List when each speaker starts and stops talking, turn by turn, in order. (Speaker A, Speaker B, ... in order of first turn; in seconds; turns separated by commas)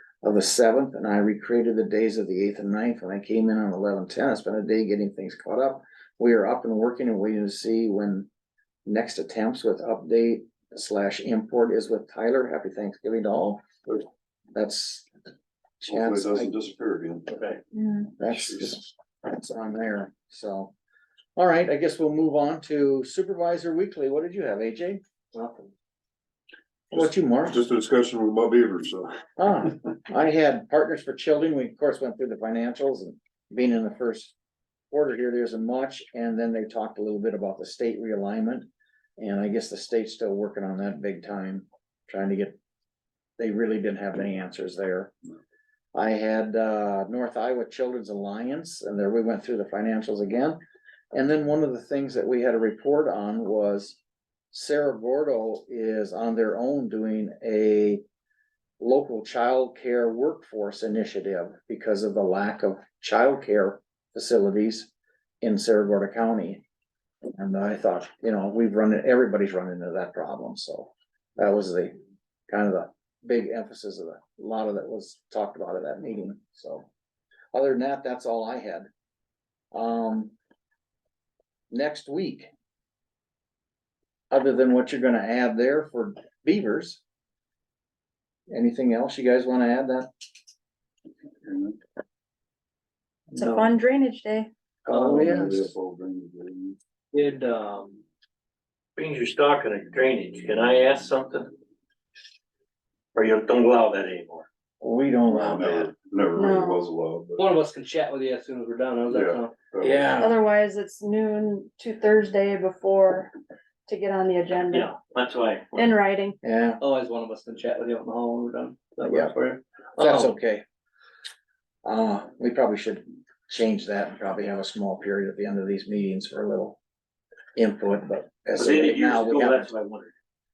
Speaker A: 0.2-8.3, Speaker A: 8.8-13.6, Speaker A: 14.5-15.1, Speaker A: 15.8-16.5, Speaker B: 15.9-17.3, Speaker C: 17.3-17.6, Speaker D: 17.8-18.1, Speaker A: 18.2-20.7, Speaker A: 21.4-25.0, Speaker E: 25.3-25.7, Speaker A: 26.9-27.6, Speaker B: 26.9-29.1, Speaker A: 29.4-34.3, Speaker A: 34.9-38.7, Speaker A: 39.2-42.5, Speaker A: 43.4-45.1, Speaker A: 45.9-50.6, Speaker A: 51.1-54.0, Speaker A: 54.5-58.0, Speaker A: 58.8-66.6, Speaker A: 67.3-71.9, Speaker A: 72.5-76.8, Speaker A: 77.5-78.9, Speaker A: 79.7-80.3, Speaker A: 81.7-82.5, Speaker A: 84.3-87.0, Speaker A: 88.5-90.1, Speaker E: 93.3-93.7, Speaker D: 93.3-94.5, Speaker A: 94.8-95.7, Speaker E: 94.9-95.5, Speaker B: 95.3-96.8, Speaker C: 97.1-98.0, Speaker C: 99.0-101.5, Speaker C: 103.1-104.5, Speaker A: 104.8-105.9, Speaker B: 105.3-107.4, Speaker D: 106.3-106.9, Speaker E: 107.4-109.7, Speaker B: 109.1-109.9, Speaker C: 109.9-110.2, Speaker D: 110.2-113.3, Speaker D: 113.9-114.9, Speaker C: 114.7-115.9, Speaker D: 115.7-116.4, Speaker A: 116.4-116.8, Speaker E: 116.8-120.3, Speaker A: 119.0-119.3, Speaker A: 120.0-120.6, Speaker A: 121.8-126.8, Speaker A: 127.5-129.7, Speaker C: 128.6-130.1